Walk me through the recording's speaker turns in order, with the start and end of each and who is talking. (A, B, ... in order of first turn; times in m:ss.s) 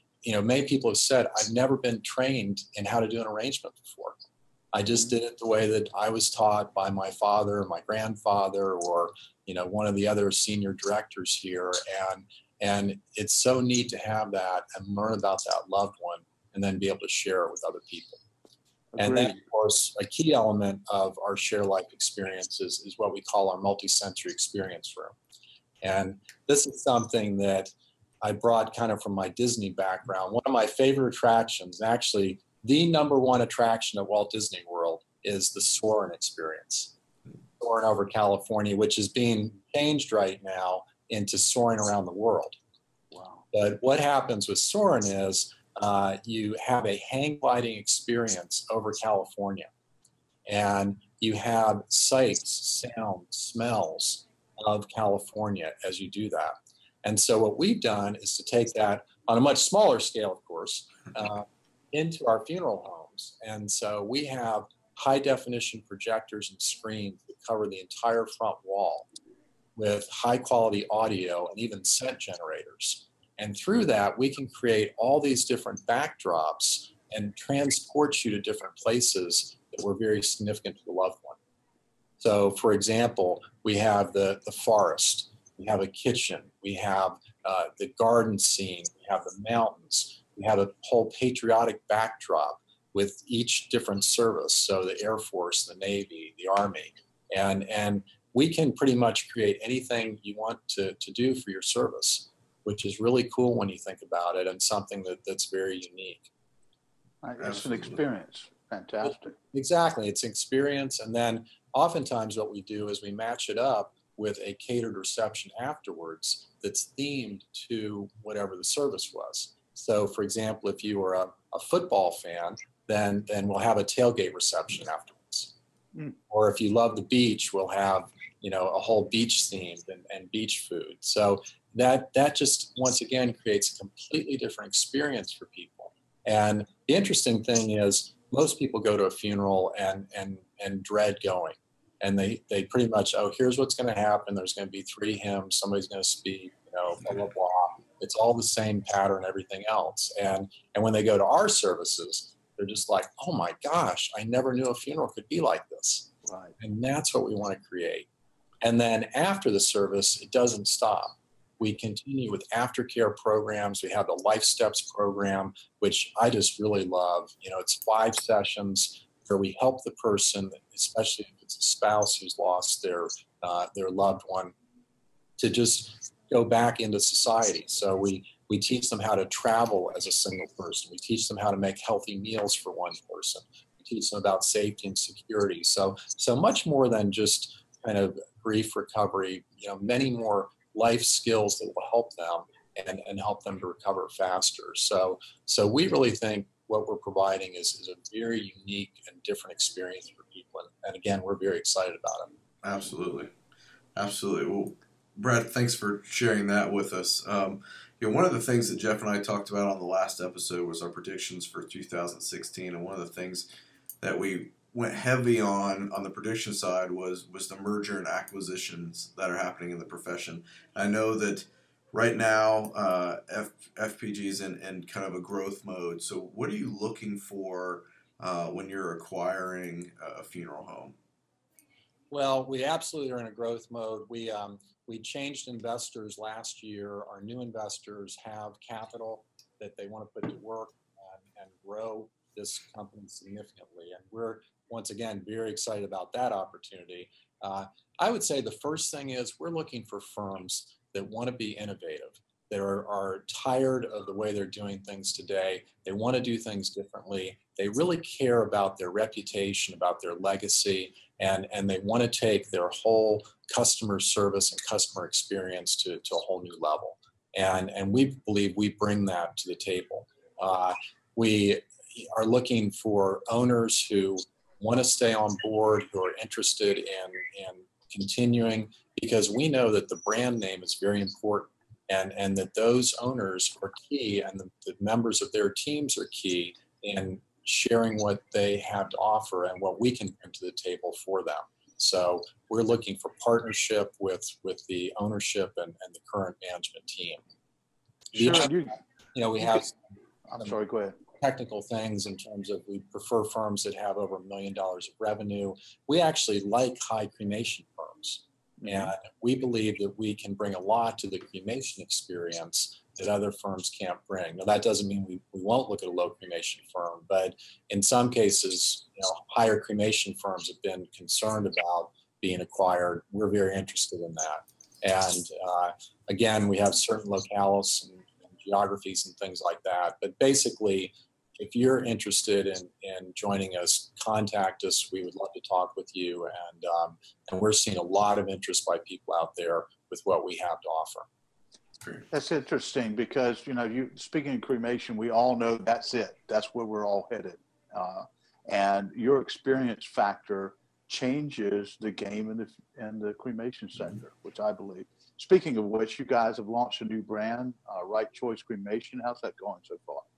0:00.2-0:04.2 A
0:04.7-0:18.2 A
0:18.9-0:19.4 B
0:19.0-0:25.1 A
0:25.8-0:27.7 A
0:28.2-0:36.9 A
0:37.6-0:42.6 A
0:43.1-0:43.4 B
0:43.5-0:49.7 A
0:50.5-1:09.1 A
1:09.8-1:21.4 A
1:22.2-1:46.3 A
1:47.2-1:49.3 B
1:47.4-1:47.9 C
1:49.0-2:05.5 A
2:06.3-2:38.1 A
2:36.2-2:36.5 B
2:38.6-2:54.5 A
2:55.4-3:22.3 A
3:22.6-3:23.3 C
3:24.0-3:33.4 C
3:34.0-3:50.9 C
3:52.1-4:57.2 A
4:58.2-4:58.8 B
4:59.1-4:59.8 A
5:00.3-5:01.0 B
5:01.2-5:41.1 A
5:08.6-5:08.9 B
5:42.1-6:00.0 B